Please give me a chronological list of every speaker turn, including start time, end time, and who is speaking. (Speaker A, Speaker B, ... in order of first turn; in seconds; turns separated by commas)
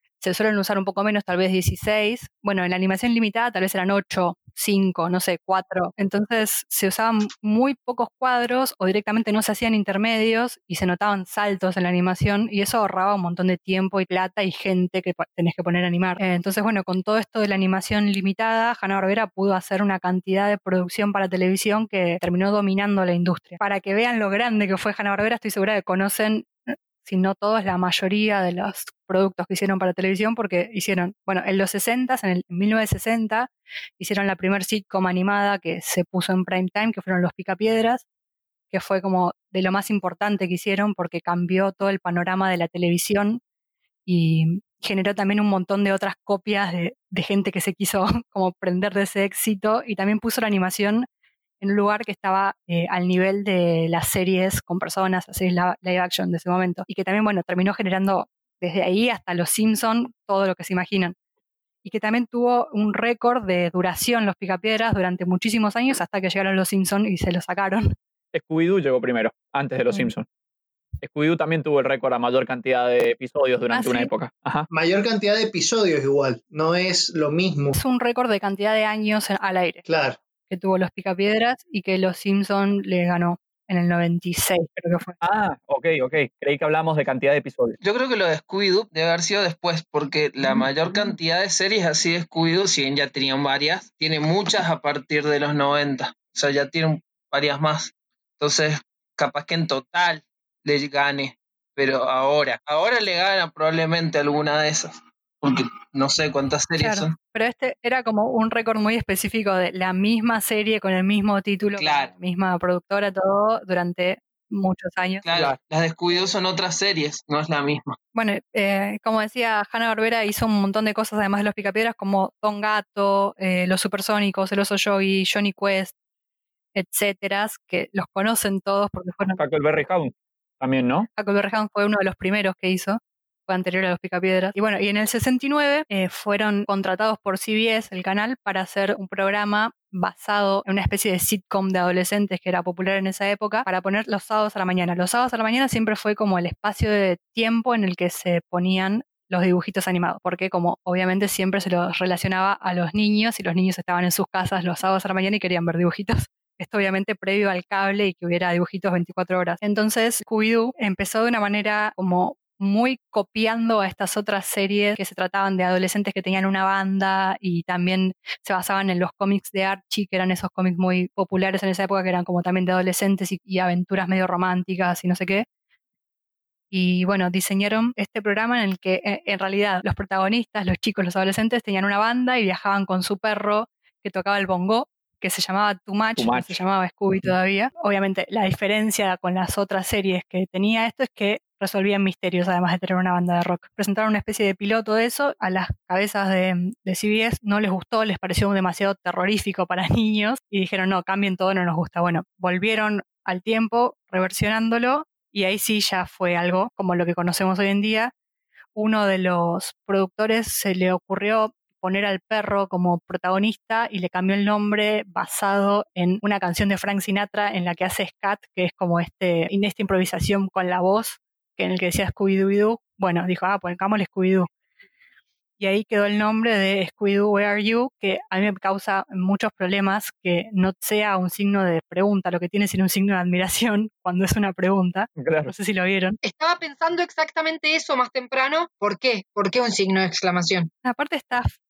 Speaker A: 0.2-38.0, Speaker A: 38.7-43.4, Speaker A: 44.1-51.1, Speaker A: 51.6-61.1, Speaker A: 61.8-67.9, Speaker B: 68.3-70.2, Speaker B: 71.0-74.7, Speaker A: 73.7-74.1, Speaker C: 74.7-77.8, Speaker A: 77.7-79.8, Speaker C: 79.9-80.2, Speaker A: 80.5-85.2, Speaker B: 85.2-87.8, Speaker D: 87.8-107.2, Speaker A: 106.8-115.2, Speaker D: 111.8-112.1, Speaker D: 115.2-117.9, Speaker A: 118.1-125.9, Speaker A: 126.8-129.4, Speaker B: 129.4-131.1, Speaker A: 131.2-175.4, Speaker A: 176.7-208.1, Speaker B: 186.2-186.6, Speaker A: 208.7-224.5, Speaker A: 225.6-236.2, Speaker B: 235.2-235.5, Speaker E: 236.2-240.7, Speaker A: 240.8-241.5